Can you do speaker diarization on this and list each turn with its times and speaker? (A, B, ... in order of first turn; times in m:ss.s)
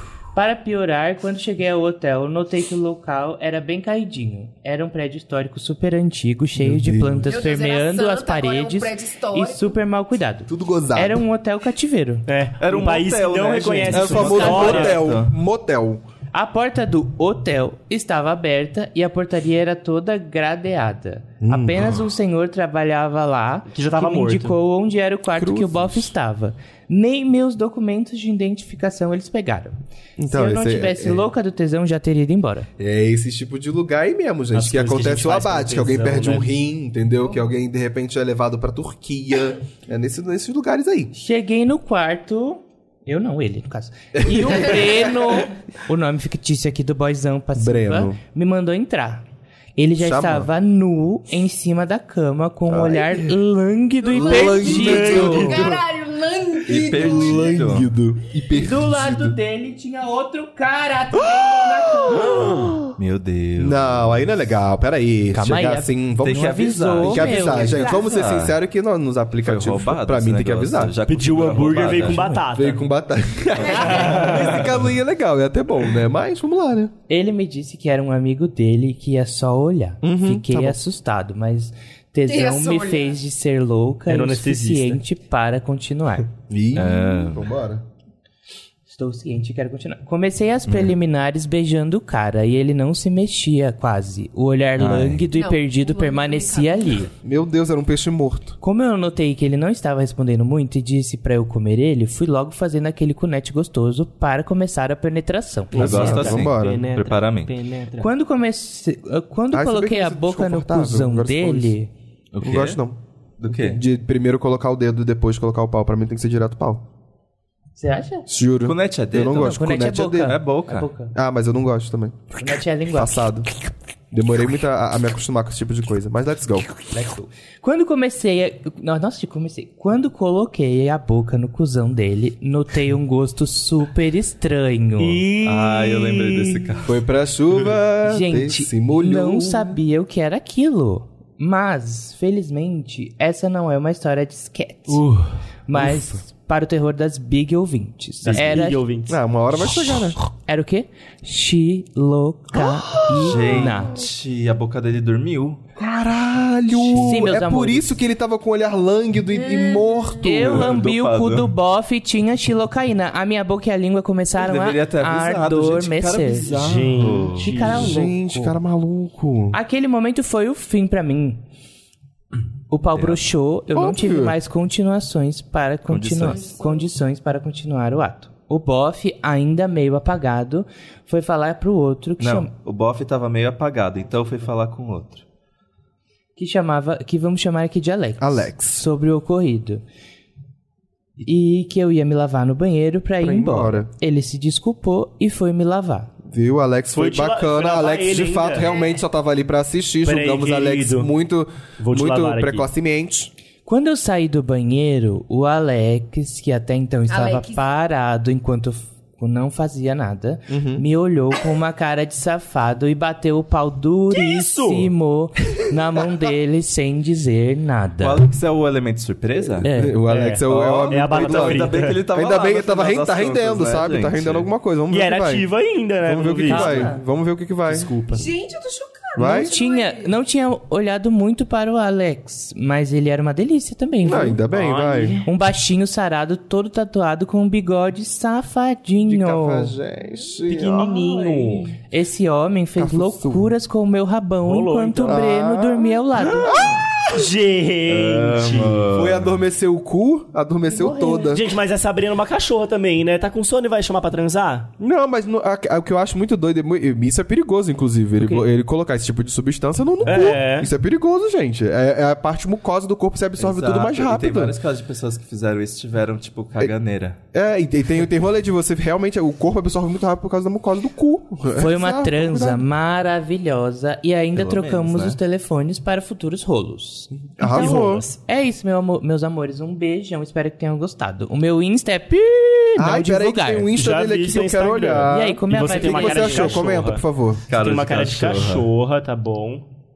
0:00.3-0:12.2 A
0:06.6-0:07.4 B
0:07.3-0:09.7 C
0:10.5-0:11.2 B
0:12.3-0:15.0 D
0:12.6-0:15.3 E
0:13.9-0:16.0 B
0:14.1-0:14.9 A
0:16.3-0:29.8 A
0:21.4-0:22.0 B
0:23.7-0:24.6 D
0:25.4-0:26.1 B
0:30.2-0:31.2 B
0:30.3-0:32.7 A
0:32.8-0:41.1 B
0:34.5-0:36.5 D
0:41.1-0:49.2 A
0:44.2-0:45.3 B
0:47.6-0:48.2 B
0:49.8-0:55.5 A
0:50.0-0:50.5 B
0:52.7-0:53.4 B
0:54.0-0:55.8 D
0:54.1-0:55.8 B
0:54.9-0:57.6 C
0:56.7-0:57.9 E
0:56.7-0:59.4 B
0:58.5-1:02.6 A
1:02.1-1:02.9 B
1:03.0-1:04.1 E
1:03.6-1:11.0 B
1:05.3-1:08.0 A
1:06.2-1:08.6 E
1:07.7-1:08.2 C
1:09.4-1:12.2 E
1:11.1-1:12.8 D
1:11.8-1:12.4 A
1:12.5-1:16.9 B
1:13.6-1:14.3 C
1:13.8-1:14.5 D
1:14.0-1:14.9 E
1:17.1-1:26.3 A
1:20.0-1:20.8 B
1:22.3-1:23.2 C
1:24.1-1:25.0 D
1:26.5-1:27.8 B
1:26.7-1:27.5 E
1:28.9-1:37.1 A
1:34.8-1:35.2 E
1:35.3-1:37.0 C
1:37.2-1:38.6 B
1:38.6-1:46.3 A
1:45.7-1:48.1 D
1:45.7-1:46.8 B
1:45.8-1:47.5 E
1:48.0-1:51.9 A
1:49.5-1:51.7 B
1:52.3-1:52.8 E
1:52.4-1:53.0 B
1:53.4-1:53.8 E
1:53.5-1:53.8 A
1:53.6-1:56.8 B
1:57.8-1:58.2 A
1:58.3-2:00.4 B
1:58.6-1:59.6 E
1:59.3-2:01.1 A
2:00.2-2:00.9 E
2:01.1-2:02.3 B
2:02.4-2:03.2 A
2:02.9-2:03.5 B
2:04.1-2:06.7 B
2:06.8-2:15.2 A
2:15.0-2:16.7 D
2:15.4-2:16.9 E
2:16.8-2:19.8 B
2:18.0-2:25.0 A
2:25.7-2:28.8 A
2:25.7-2:26.2 B
2:28.2-2:29.1 D
2:28.3-2:28.6 E
2:29.1-2:30.2 B
2:29.5-2:34.0 A
2:32.5-2:33.8 B
2:33.2-2:35.6 E
2:35.8-2:40.7 B
2:36.9-2:37.9 A
2:39.3-2:40.2 C
2:40.2-2:46.6 A
2:40.2-2:41.5 E
2:44.3-2:47.9 E
2:46.5-2:47.9 D
2:47.3-2:48.6 A
2:47.7-2:49.6 B
2:49.5-2:51.4 A
2:52.7-3:02.5 A
2:53.7-2:54.4 B
2:55.9-2:56.5 E
3:02.2-3:05.2 E
3:06.4-3:09.8 A
3:08.2-3:08.8 B
3:11.2-3:16.1 A
3:13.2-3:13.9 B
3:16.2-3:23.3 B
3:16.9-3:18.7 D
3:18.5-3:19.0 C
3:20.0-3:21.1 D
3:21.8-3:22.7 D
3:23.6-3:38.2 A
3:27.1-3:27.6 C
3:30.5-3:30.8 B
3:34.1-3:34.9 D
3:38.0-3:39.7 E
3:39.6-3:40.0 A
3:39.7-3:45.4 B
3:40.1-3:42.0 D
3:40.4-3:44.5 E
3:44.9-3:46.9 D
3:46.0-3:47.9 B
3:46.4-3:47.0 A
3:47.6-3:48.3 D
3:48.1-3:50.1 C
3:49.2-3:49.5 B
3:49.2-3:54.4 A
3:54.0-3:55.2 B
3:54.5-3:55.3 D
3:55.2-3:59.7 A
3:59.0-4:00.9 B
4:00.5-4:01.7 D
4:00.7-4:06.7 A
4:02.8-4:03.5 B
4:04.4-4:05.2 D
4:05.0-4:06.8 B
4:06.3-4:08.9 D
4:07.9-4:09.3 E
4:08.9-4:11.4 B
4:10.7-4:11.4 A
4:11.3-4:14.7 D
4:14.8-4:24.6 B
4:18.2-4:18.5 A
4:20.0-4:20.7 D
4:23.4-4:27.2 E
4:27.3-4:32.6 B
4:31.6-4:43.7 A
4:34.3-4:35.2 E
4:37.2-4:38.0 B
4:37.4-4:38.2 D
4:42.8-4:47.4 B
4:43.7-4:47.0 D
4:45.1-4:46.6 A
4:47.5-4:48.6 E
4:47.6-4:49.6 D